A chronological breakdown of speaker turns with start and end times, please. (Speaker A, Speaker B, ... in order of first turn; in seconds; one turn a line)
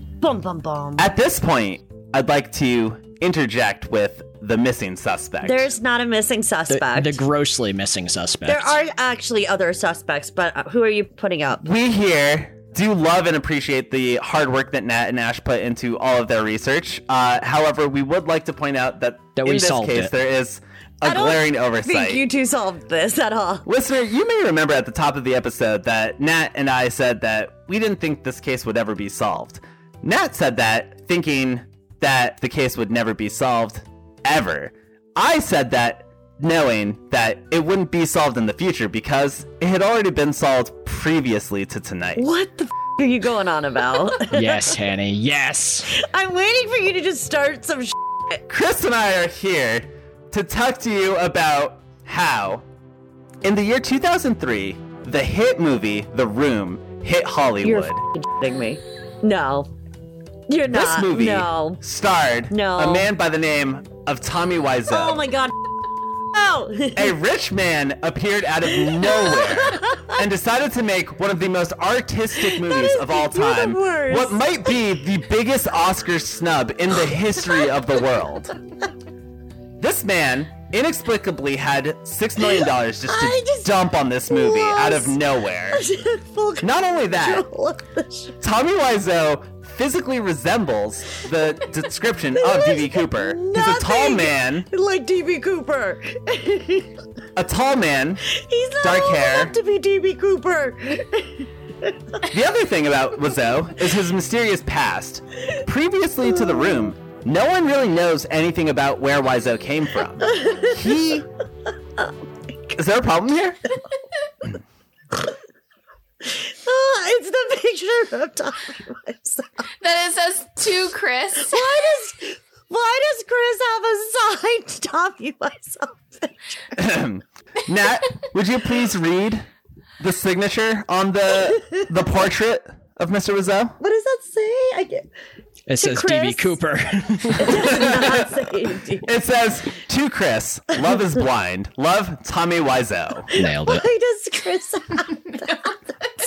Speaker A: 0.2-1.1
Speaker B: 1.0-5.7
Speaker A: 5.4-7.2
Speaker C: 6.7-8.8
Speaker A: 8.4-11.7
Speaker B: 11.6-22.2
Speaker C: 19.4-20.1
Speaker A: 21.0-23.6
Speaker B: 23.6-42.2
Speaker A: 42.2-44.8
Speaker C: 44.3-45.9
Speaker A: 45.9-48.4
Speaker B: 48.5-52.6
Speaker B: 53.4-58.0
Speaker A: 57.6-59.7
Speaker A: 60.5-61.8
Speaker B: 60.7-65.2
Speaker A: 62.5-63.1
Speaker A: 64.9-65.5
Speaker A: 66.3-67.1
Speaker B: 66.9-78.5
Speaker A: 69.0-70.1
Speaker A: 72.4-74.4
Speaker B: 79.8-85.8
Speaker A: 83.1-83.7
Speaker A: 84.3-85.2
Speaker A: 85.7-88.3
Speaker B: 86.6-87.5
Speaker B: 88.4-94.7
Speaker A: 92.3-97.0
Speaker B: 97.3-98.3
Speaker A: 98.3-102.0
Speaker B: 98.8-99.5
Speaker B: 102.3-111.3
Speaker A: 110.4-110.7
Speaker B: 112.7-113.6
Speaker A: 116.2-119.6
Speaker D: 119.8-121.7
Speaker A: 121.4-126.8
Speaker B: 126.7-129.5
Speaker B: 130.0-133.8
Speaker A: 133.8-135.1
Speaker C: 135.7-137.6
Speaker A: 135.8-136.6
Speaker A: 137.4-139.1
Speaker B: 137.5-138.4
Speaker B: 139.0-143.3
Speaker C: 143.3-143.9
Speaker A: 143.3-145.7
Speaker D: 145.3-145.6